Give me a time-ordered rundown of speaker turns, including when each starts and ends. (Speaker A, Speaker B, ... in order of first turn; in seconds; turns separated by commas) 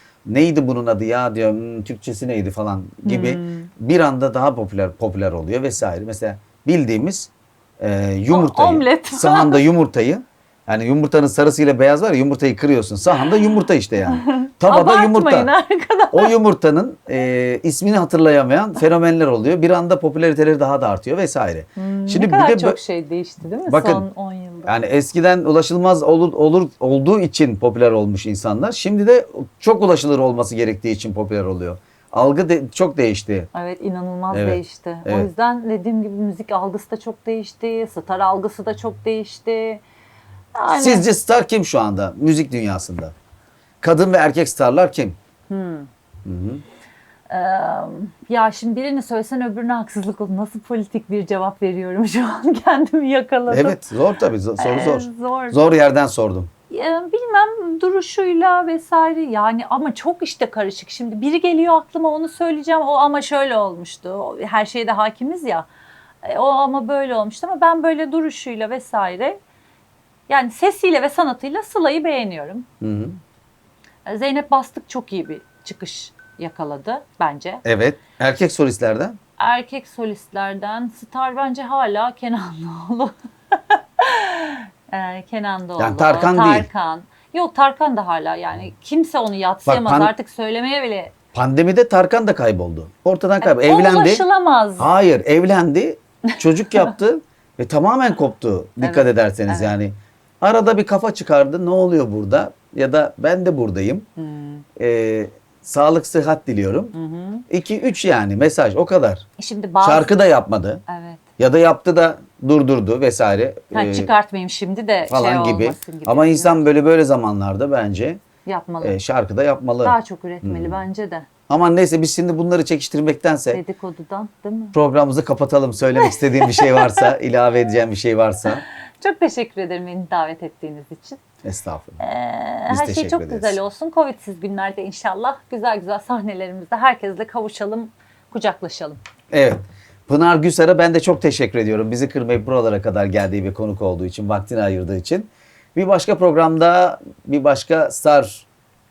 Speaker A: 0.3-15.5, Speaker B: 3.0-3.7, Speaker B: 8.3-9.6, Speaker B: 13.2-13.6, Speaker B: 14.1-16.4, Speaker A: 16.1-22.8, Speaker B: 21.8-24.8, Speaker A: 23.7-24.1, Speaker A: 24.6-33.5, Speaker B: 33.5-39.8, Speaker A: 34.3-35.3, Speaker B: 40.5-41.0, Speaker A: 40.7-43.1, Speaker A: 43.8-45.2, Speaker B: 45.5-45.9, Speaker A: 46.3-46.6, Speaker B: 47.3-53.8, Speaker A: 53.5-56.5, Speaker B: 54.6-55.7, Speaker B: 56.7-65.7, Speaker B: 66.2-69.4, Speaker B: 70.3-72.7, Speaker A: 72.8-73.2, Speaker B: 74.1-77.6, Speaker A: 77.6-79.2, Speaker B: 79.4-91.2, Speaker A: 85.8-86.7, Speaker A: 89.7-90.1, Speaker A: 91.3-94.2, Speaker B: 93.4-94.9, Speaker A: 94.8-104.1, Speaker B: 96.3-96.9, Speaker B: 98.8-99.7, Speaker B: 104.2-104.6, Speaker A: 104.8-106.9, Speaker B: 106.9-107.4, Speaker A: 107.5-109.3, Speaker B: 109.4-110.1, Speaker A: 109.8-110.8, Speaker B: 110.9-111.2, Speaker A: 111.4-114.1, Speaker B: 113.7-116.6, Speaker A: 115.1-118.2, Speaker B: 118.5-119.0, Speaker A: 118.8-120.8, Speaker B: 119.8-121.3, Speaker A: 121.5-123.6, Speaker B: 123.5-124.8, Speaker A: 124.7-128.6, Speaker B: 126.0-127.1, Speaker B: 129.0-131.2, Speaker A: 131.4-132.0, Speaker B: 132.0-139.0, Speaker A: 132.7-133.6, Speaker A: 139.3-148.5